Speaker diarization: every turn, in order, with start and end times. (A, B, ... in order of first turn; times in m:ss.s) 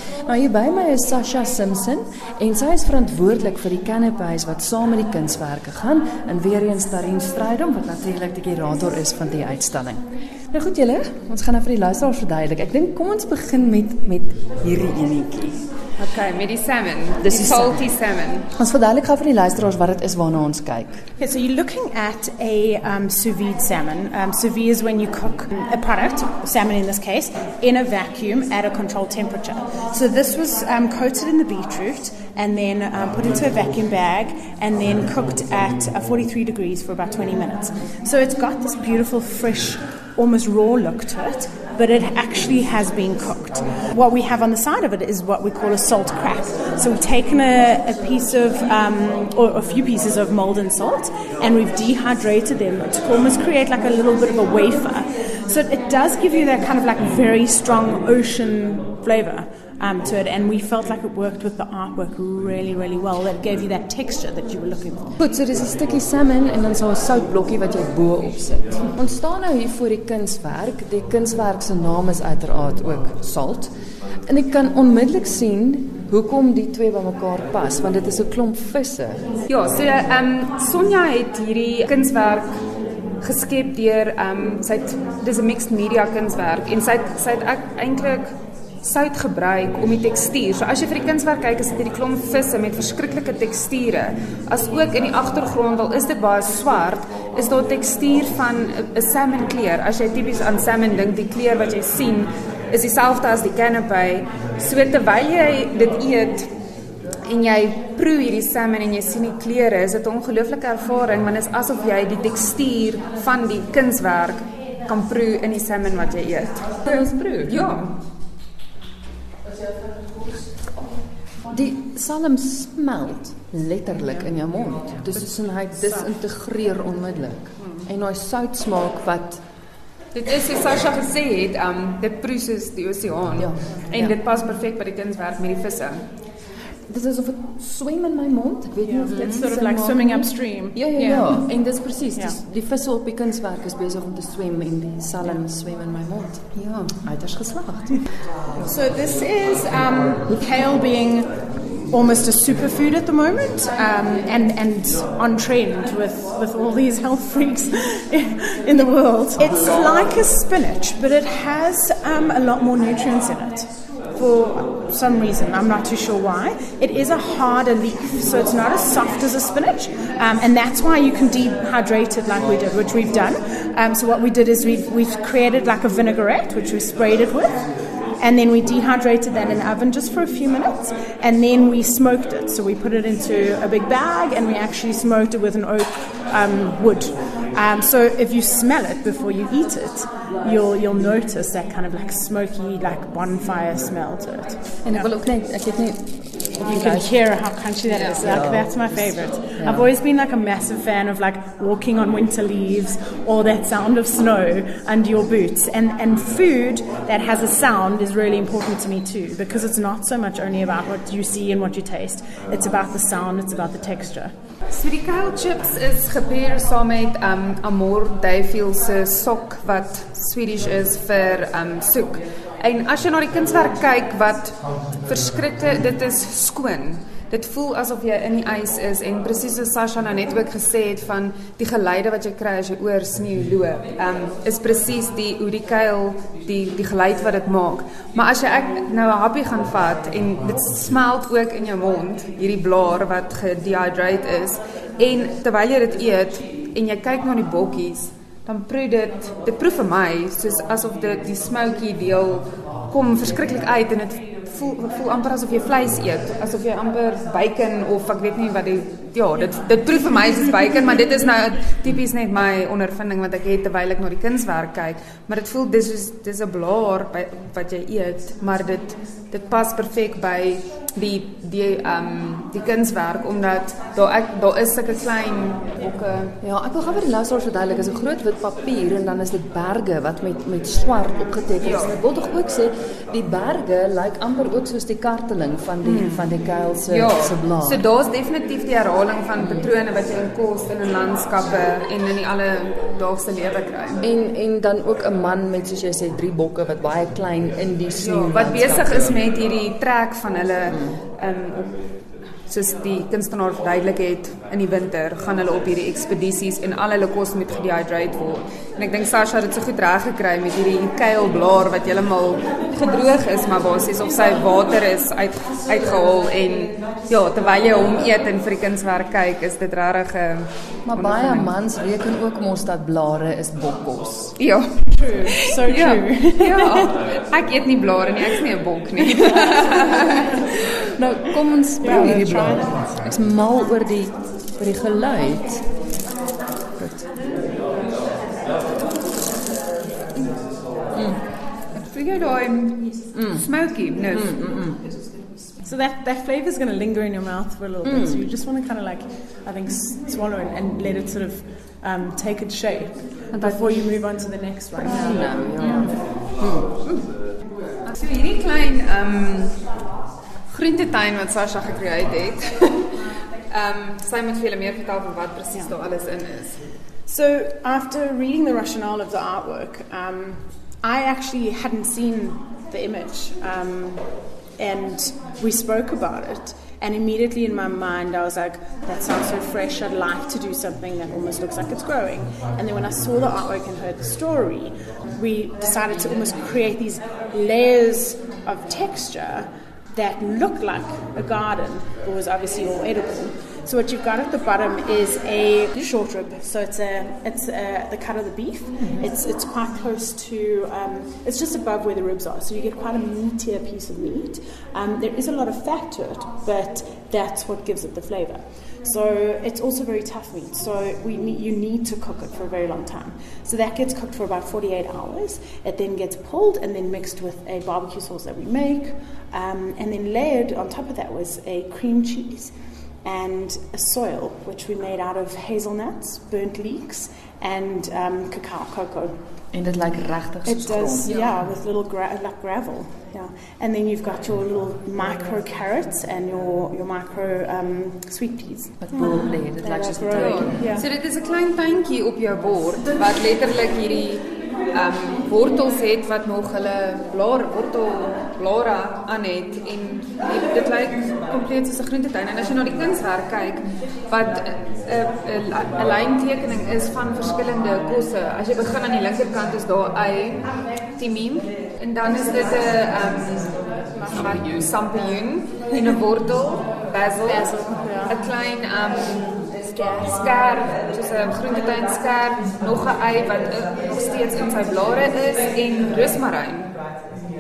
0:00.3-0:15.6 A
0:16.0-0:18.5 B
0:17.2-0:17.9 A
0:18.5-0:21.0 A
0:21.2-1:05.1 C
1:05.2-1:13.7 A
1:14.2-1:19.2 A
1:19.5-1:22.5 B
1:23.2-1:28.3 B
1:28.8-1:46.5 B
1:47.2-1:58.0 B
1:56.8-1:57.6 A
2:01.4-2:09.4 A
2:07.6-2:07.9 C
2:10.1-2:16.0 B
2:13.4-2:14.2 A
2:16.9-2:26.5 A
2:18.8-2:21.4 C
2:19.1-2:19.4 B
2:22.2-2:22.4 C
2:26.5-2:27.0 B
2:27.0-2:28.0 A
2:28.6-2:31.3 C
2:31.9-2:57.6 C
2:58.2-3:15.1 C
3:14.8-3:17.1 A
3:16.6-3:34.3 C
3:17.9-3:18.2 B
3:18.2-3:19.0 A
3:19.6-3:19.9 A
3:34.7-4:36.4 B
4:36.4-4:47.8 A
4:41.6-4:42.0 B
4:45.8-4:54.0 B
4:49.4-4:49.7 A
4:54.0-4:59.2 A
4:58.0-5:01.7 B
5:00.7-5:01.0 A
5:02.5-5:21.5 B
5:20.9-5:24.4 A
5:24.4-5:30.3 B
5:24.9-5:27.0 C
5:30.8-5:35.6 A
5:31.8-5:33.2 C
5:36.8-5:37.1 A
5:41.7-5:44.4 B
5:43.1-5:43.5 A
5:44.1-5:44.8 A
5:45.6-5:56.0 C
5:47.8-5:48.3 A
5:53.3-5:53.8 B
5:54.8-5:56.7 A
5:55.0-5:56.0 B
5:57.8-5:59.6 B
6:00.5-6:06.7 B
6:07.1-7:09.2 C
6:38.8-6:39.1 A
7:09.5-7:11.1 A
7:10.4-7:20.9 C
7:11.1-7:11.4 B
7:18.8-7:20.8 A
7:20.1-7:47.5 B
7:44.0-7:44.3 C
7:47.2-7:48.2 C
7:48.1-7:56.7 B